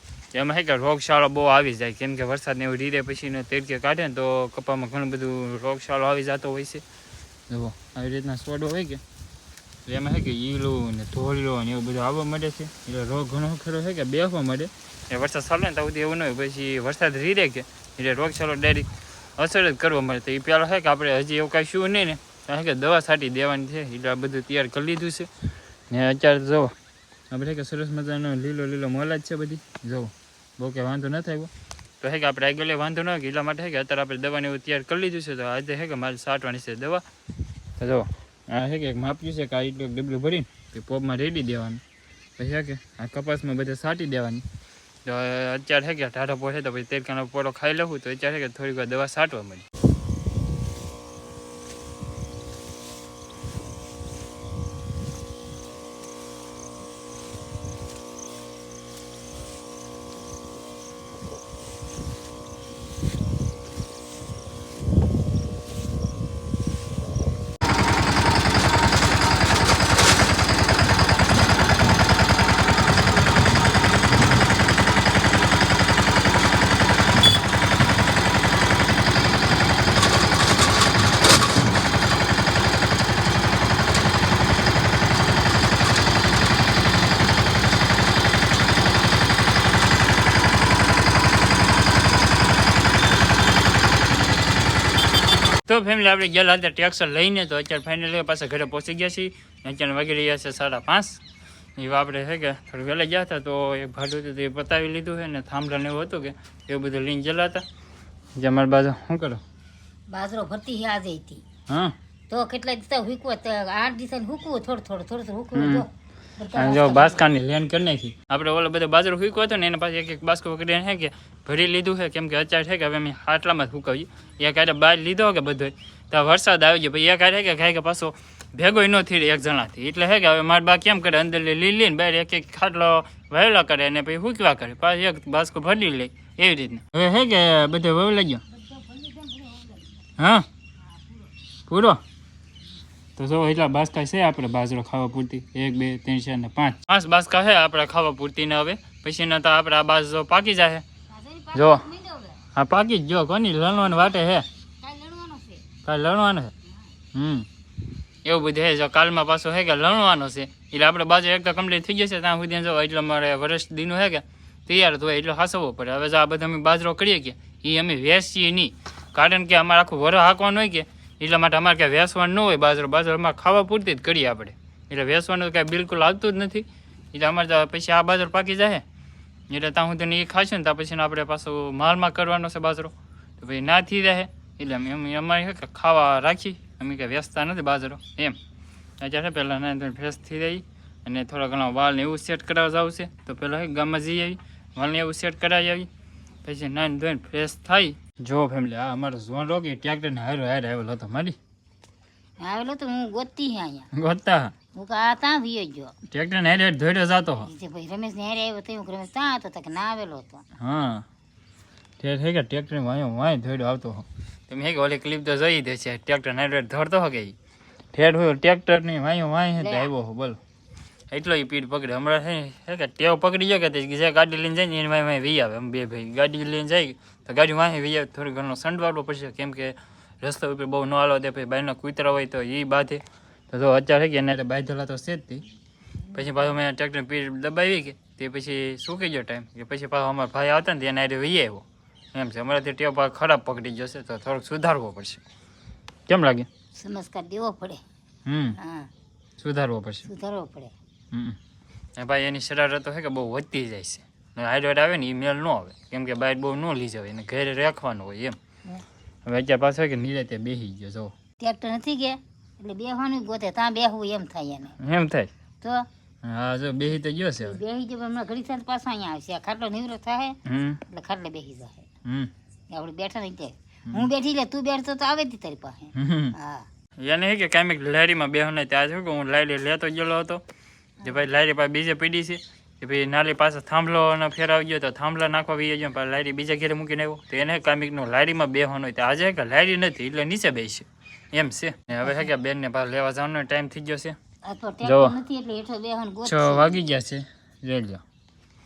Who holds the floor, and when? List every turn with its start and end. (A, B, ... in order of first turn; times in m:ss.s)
0:00.3-0:06.8 A
0:07.5-0:09.0 A
0:09.9-0:25.3 A
0:25.9-0:26.7 A
0:27.3-0:31.5 A
0:32.0-0:37.0 A
0:37.8-0:41.8 A
0:42.4-0:44.4 A
0:45.0-0:49.7 A
1:35.7-1:41.2 A
1:41.8-1:47.6 A
1:48.4-1:49.4 A
1:50.1-1:51.4 B
1:51.7-1:52.0 A
1:52.3-1:57.2 B
1:55.5-1:55.9 A
1:56.5-2:18.4 A
2:18.5-2:20.1 B
2:20.2-2:20.5 A
2:20.9-2:21.3 B
2:21.7-2:22.0 A
2:23.2-2:30.8 A
2:31.1-2:32.4 B
2:31.5-2:31.8 A
2:32.6-2:34.5 A
2:33.7-2:34.2 B
2:34.8-2:35.7 B
2:35.8-2:36.5 A
2:37.1-2:37.5 A
2:38.2-2:58.8 A
2:59.5-3:08.4 A
3:09.0-3:15.9 A
3:16.4-3:21.4 A
3:22.4-3:23.9 B
3:23.9-3:24.6 A
3:24.7-3:26.0 B
3:26.1-3:27.5 A
3:27.4-3:30.4 B
3:30.6-3:31.0 A
3:32.0-3:37.4 A
3:37.9-3:40.4 A
3:39.6-3:39.9 B
3:41.1-3:55.4 A
3:56.1-4:05.2 A
4:06.1-4:06.5 A
4:06.8-4:07.8 B
4:08.3-4:08.6 A
4:08.6-4:08.9 B
4:09.4-4:10.1 A
4:10.0-4:10.7 B
4:11.1-4:11.4 A
4:12.0-4:18.4 A
4:19.3-4:21.1 A
4:21.4-4:24.8 B
4:24.8-4:25.3 A
4:25.6-4:25.9 B
4:26.2-4:27.6 A
4:27.4-4:31.9 B
4:30.5-4:30.8 A
4:32.0-4:32.3 A
4:32.7-4:36.7 B
4:36.0-4:36.4 A
4:37.0-4:40.4 A
4:41.0-4:54.2 A
4:54.4-4:56.8 B
4:54.8-4:55.2 A
4:56.2-4:58.0 A